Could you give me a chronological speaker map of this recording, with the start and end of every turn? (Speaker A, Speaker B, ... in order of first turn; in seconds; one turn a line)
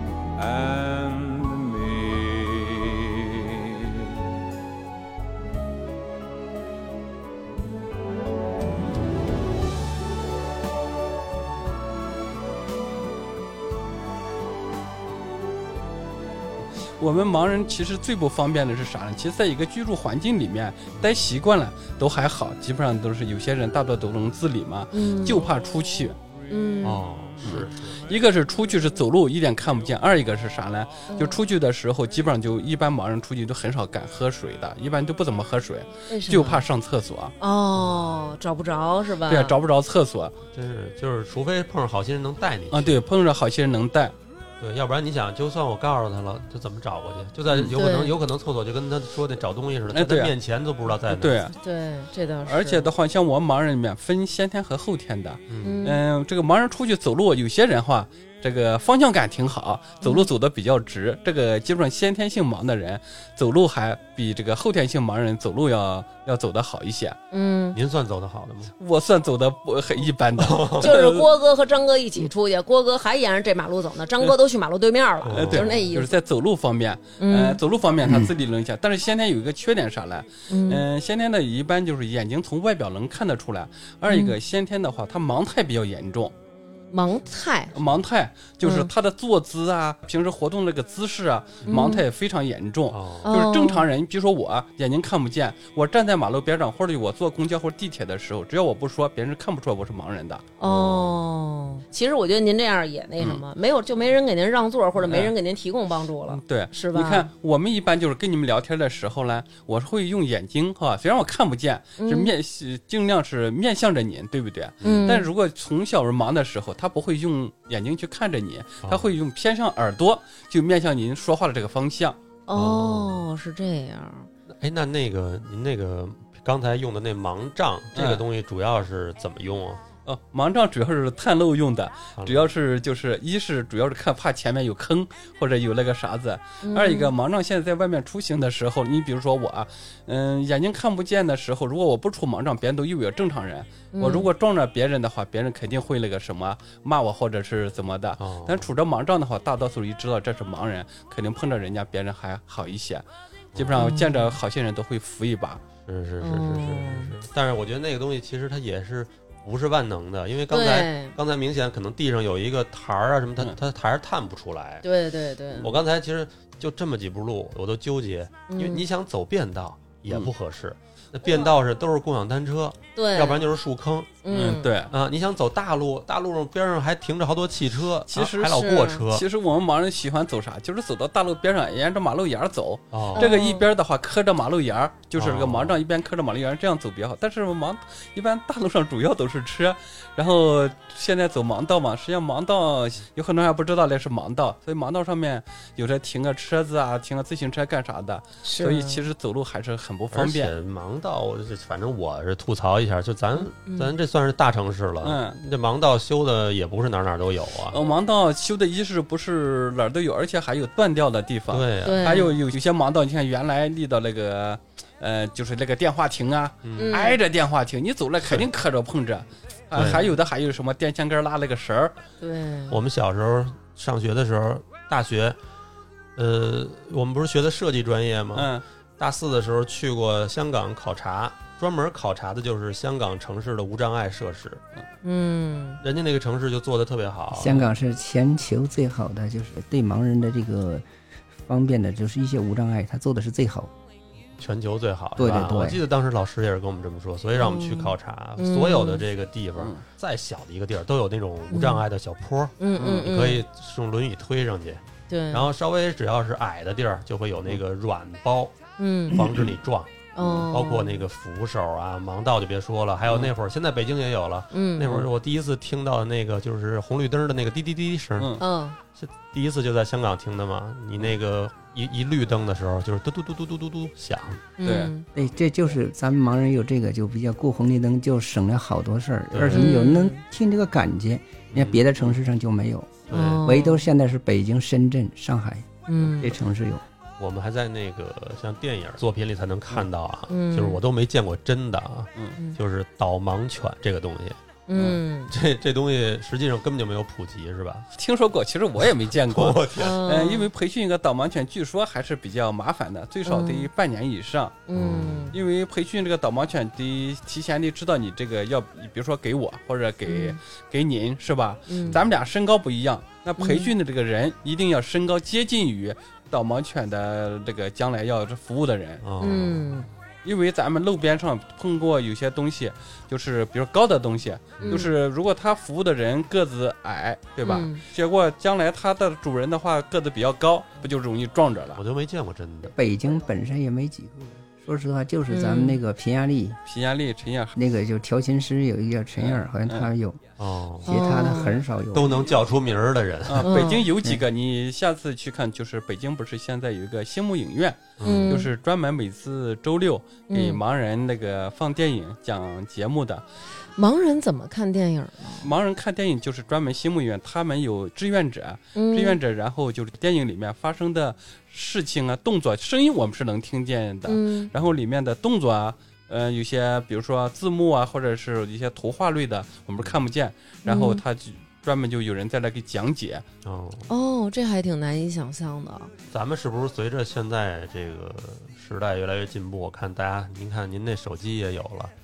Speaker A: 0.4-4.0
Speaker B: 17.0-26.2
Speaker C: 24.9-25.5
Speaker C: 26.5-27.0
Speaker D: 26.8-28.0
Speaker B: 27.4-37.3
Speaker C: 31.1-31.4
Speaker C: 36.1-36.6
Speaker C: 37.4-39.5
Speaker B: 39.3-40.4
Speaker D: 40.5-43.0
Speaker B: 42.7-44.1
Speaker D: 44.6-51.5
Speaker B: 47.5-47.8
Speaker C: 47.7-48.2
Speaker B: 49.9-50.3
Speaker B: 51.1-51.5
Speaker C: 51.5-52.9
Speaker B: 52.5-67.2
Speaker D: 55.5-55.8
Speaker C: 55.6-56.0
Speaker C: 60.0-60.3
Speaker C: 67.3-67.8
Speaker D: 67.7-68.7
Speaker B: 68.8-71.3
Speaker D: 70.4-70.9
Speaker C: 70.8-76.2
Speaker D: 75.2-75.7
Speaker B: 75.3-86.3
Speaker C: 77.2-77.6
Speaker C: 80.5-80.8
Speaker C: 84.1-84.4
Speaker C: 86.9-87.8
Speaker B: 87.8-101.1
Speaker C: 88.6-88.9
Speaker C: 91.7-92.0
Speaker D: 92.9-93.3
Speaker C: 93.2-93.9
Speaker C: 100.6-107.3
Speaker B: 105.0-105.3
Speaker B: 106.3-122.2
Speaker C: 112.0-112.3
Speaker C: 114.8-115.3
Speaker D: 114.8-115.1
Speaker D: 118.8-119.1
Speaker C: 122.5-124.3
Speaker D: 122.5-123.2
Speaker D: 124.5-129.8
Speaker B: 127.9-128.2
Speaker B: 130.1-155.6
Speaker D: 132.2-132.5
Speaker C: 136.6-137.1
Speaker C: 143.9-144.3
Speaker D: 148.2-148.7
Speaker C: 153.8-154.4
Speaker D: 155.9-164.9
Speaker C: 156.2-157.1
Speaker C: 160.5-161.2
Speaker C: 164.8-165.7
Speaker D: 165.5-174.2
Speaker C: 168.5-168.8
Speaker C: 171.3-171.6
Speaker C: 172.9-173.4
Speaker C: 174.2-174.7
Speaker B: 174.3-174.9
Speaker D: 174.9-179.2
Speaker B: 178.1-200.5
Speaker C: 178.6-179.0
Speaker D: 182.9-183.3
Speaker C: 183.2-183.7
Speaker D: 185.2-185.8
Speaker C: 198.4-199.0
Speaker D: 200.1-207.8
Speaker C: 203.7-203.9
Speaker B: 205.0-205.4
Speaker B: 207.7-221.9
Speaker D: 211.5-212.2
Speaker C: 211.8-212.3
Speaker D: 216.6-216.9
Speaker C: 216.8-217.2
Speaker D: 219.7-220.1
Speaker C: 222.2-222.8
Speaker D: 222.7-225.4
Speaker D: 226.2-234.6
Speaker B: 228.3-228.7
Speaker C: 235.0-235.8
Speaker D: 235.8-237.7
Speaker E: 237.3-240.9
Speaker E: 241.4-243.7
Speaker D: 244.4-258.6
Speaker E: 245.2-245.8
Speaker C: 247.4-249.0
Speaker C: 251.5-251.8
Speaker C: 252.6-253.4
Speaker B: 252.8-253.0
Speaker C: 255.1-255.5
Speaker C: 258.8-259.2
Speaker D: 259.1-268.4
Speaker C: 260.1-261.0
Speaker C: 264.5-264.9
Speaker C: 268.4-268.8
Speaker D: 269.0-274.4
Speaker C: 274.6-275.1
Speaker B: 274.6-274.9
Speaker E: 275.1-286.8
Speaker D: 279.3-279.7
Speaker C: 279.5-280.2
Speaker D: 281.5-282.1
Speaker D: 283.1-283.6
Speaker C: 283.1-283.9
Speaker C: 285.9-286.4
Speaker D: 287.2-294.4
Speaker C: 290.3-290.8
Speaker C: 294.7-295.3
Speaker D: 295.3-297.9
Speaker B: 298.0-304.6
Speaker D: 299.2-300.0
Speaker C: 299.8-300.5
Speaker C: 303.3-303.7
Speaker C: 304.7-305.4
Speaker D: 304.8-305.4
Speaker B: 305.3-319.0
Speaker C: 310.1-310.4
Speaker C: 311.7-312.0
Speaker C: 313.4-313.7
Speaker D: 319.0-319.9
Speaker C: 319.2-319.9
Speaker B: 320.2-331.8
Speaker D: 324.6-324.9
Speaker C: 324.6-324.9
Speaker C: 327.4-327.8
Speaker D: 331.8-332.8
Speaker E: 332.8-336.6
Speaker C: 335.3-335.8
Speaker B: 336.7-337.6
Speaker E: 337.6-340.2
Speaker B: 339.2-339.9
Speaker D: 340.4-341.2
Speaker E: 340.8-342.2
Speaker C: 340.9-341.6
Speaker D: 341.9-343.6
Speaker B: 343.3-353.2
Speaker C: 343.4-343.9
Speaker D: 348.0-348.3
Speaker C: 348.0-348.5
Speaker C: 350.3-350.6
Speaker C: 353.8-355.5
Speaker B: 355.4-373.2
Speaker C: 358.8-359.2
Speaker C: 364.1-364.5
Speaker C: 370.6-371.0
Speaker D: 373.4-373.9
Speaker C: 373.9-375.9
Speaker D: 376.1-381.9